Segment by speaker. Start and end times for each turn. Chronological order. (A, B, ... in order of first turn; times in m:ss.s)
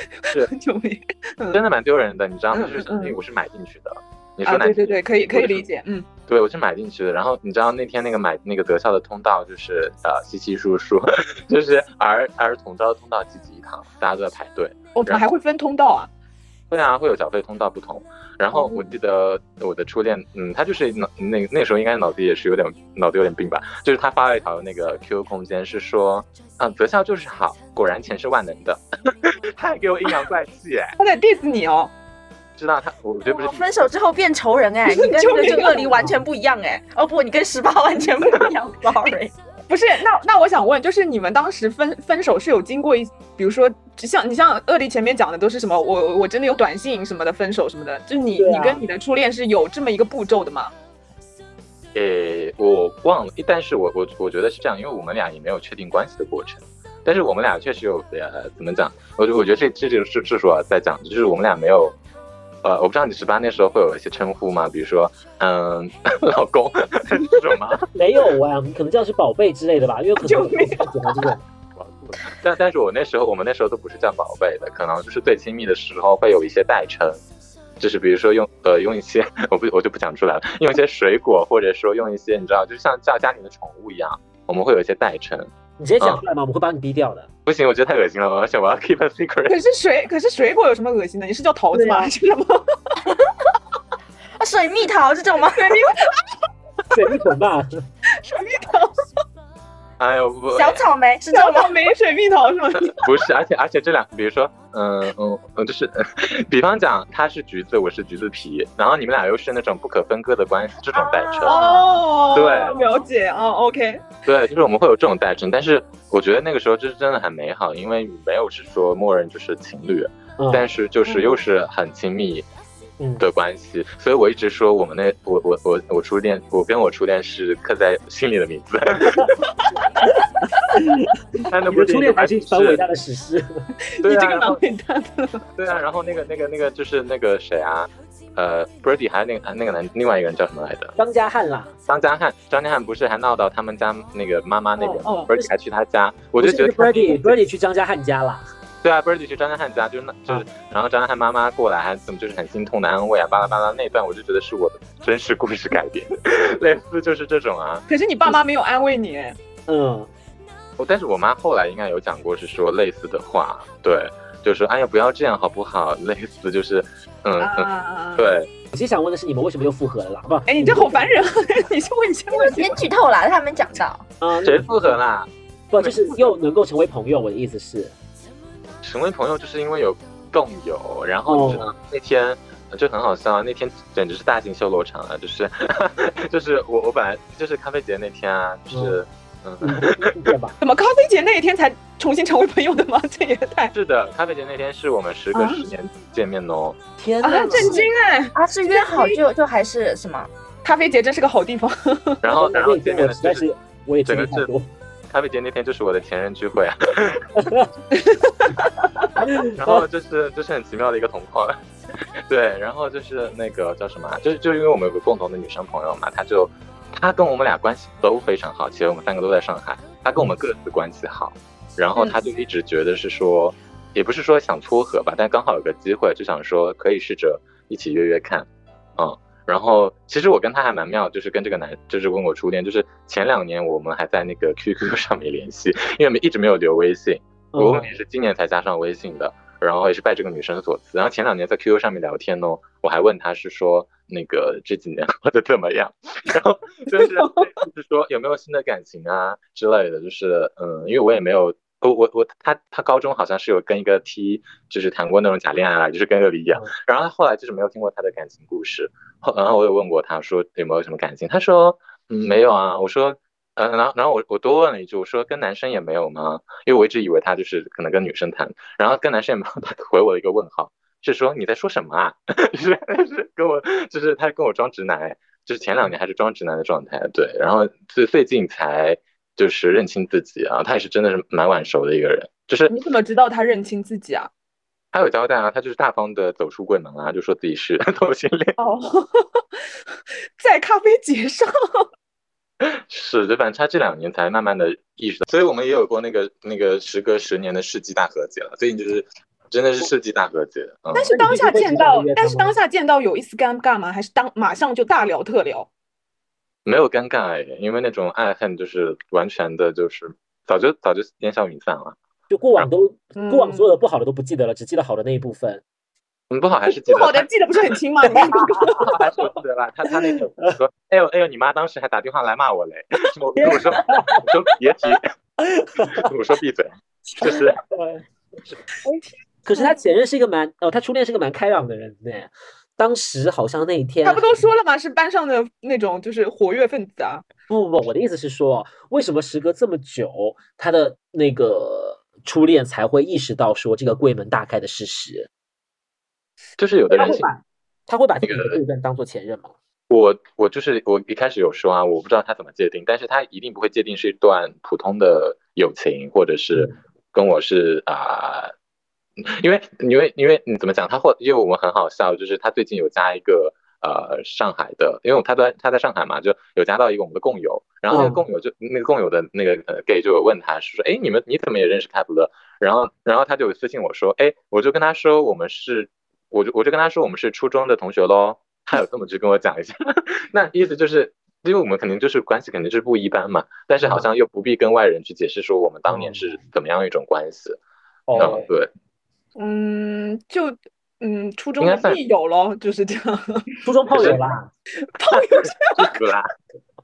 0:00.3-0:01.6 A
0:01.5-0:05.6 B
0:02.5-0:03.2 A
0:04.4-0:06.1 A
0:06.3-0:15.2 B
0:14.9-0:16.1 A
0:16.7-0:31.0 B
0:18.5-0:18.8 A
0:31.0-0:31.9 A
0:32.6-0:33.9 B
0:33.3-0:39.3 C
0:34.9-0:36.1 A
0:39.7-0:50.7 A
0:48.4-0:48.8 D
0:51.9-1:02.0 B
1:02.6-1:07.8 B
1:07.9-1:11.4 D
1:10.2-1:11.2 A
1:11.8-1:17.2 B
1:17.8-1:26.2 B
1:25.8-1:27.3 D
1:27.4-1:29.6 B
1:29.5-1:32.6 A
1:31.7-1:32.1 D
1:34.4-1:36.0 C
1:35.6-1:36.1 A
1:36.9-1:37.8 D
1:38.2-1:39.0 A
1:40.0-1:40.8 B
1:40.6-1:41.8 C
1:41.3-1:43.0 A
1:42.9-1:51.6 B
1:50.9-1:52.9 C
1:51.4-1:54.0 A
1:52.3-1:52.8 B
1:54.2-2:02.5 B
2:00.4-2:00.7 D
2:01.1-2:01.3 A
2:03.0-2:03.2 D
2:03.2-2:09.3 B
2:10.7-2:11.1 D
2:11.5-2:12.8 B
2:11.6-2:13.7 D
2:13.9-2:15.4 A
2:14.0-2:14.6 B
2:15.6-2:21.0 B
2:21.0-2:21.7 D
2:21.9-2:27.4 B
2:24.8-2:25.3 A
2:26.4-2:28.4 D
2:28.8-2:37.8 B
2:37.9-2:39.4 A
2:39.7-2:40.1 D
2:40.8-2:48.5 B
2:47.4-2:48.3 A
2:48.7-2:51.1 D
2:50.5-2:52.8 A
2:52.3-2:54.0 C
2:54.2-2:55.0 D
2:54.4-2:56.2 B
2:55.7-2:57.9 D
2:58.8-3:10.3 B
3:01.3-3:01.6 D
3:08.7-3:09.0 D
3:09.6-3:10.6 D
3:10.6-3:13.7 A
3:13.7-3:16.8 B
3:15.3-3:15.7 A
3:17.0-3:17.8 D
3:17.2-3:19.2 A
3:17.5-3:20.3 C
3:20.6-3:22.2 A
3:22.2-3:23.4 B
3:22.3-3:24.7 D
3:24.0-3:24.5 B
3:25.1-3:27.4 B
3:27.4-3:27.7 D
3:27.9-3:29.1 A
3:29.2-3:29.8 D
3:29.5-4:42.7 B
3:57.5-3:57.9 D
4:07.0-4:07.4 A
4:42.7-4:44.3 A
4:44.9-4:48.6 B
4:48.6-4:49.4 A
4:50.4-4:51.8 A
4:52.6-5:01.1 B
5:00.9-5:05.7 A
5:01.1-5:02.6 D
5:06.6-5:12.0 B
5:12.3-5:15.6 D
5:13.1-5:13.8 A
5:16.3-5:17.3 B
5:16.7-5:18.9 A
5:18.1-5:19.0 D
5:18.4-5:25.1 B
5:19.9-5:20.2 D
5:23.4-5:24.2 D
5:25.4-5:26.1 D
5:25.8-5:27.6 B
5:27.2-5:28.0 D
5:28.8-5:29.7 A
5:29.4-5:34.4 D
5:34.0-5:37.2 A
5:37.5-5:45.3 D
5:46.6-5:47.3 B
5:46.9-5:49.5 D
5:48.2-5:48.6 B
5:49.9-5:58.5 B
5:59.2-6:27.6 B
6:07.9-6:08.2 D
6:23.8-6:24.1 D
6:25.9-6:26.3 D
6:28.1-6:28.4 D
6:28.1-6:28.7 B
6:28.2-6:28.4 A
6:29.4-6:33.5 A
6:31.6-6:32.0 B
6:33.6-6:34.5 D
6:33.9-6:34.2 B
6:34.9-6:35.9 A
6:35.3-6:36.3 B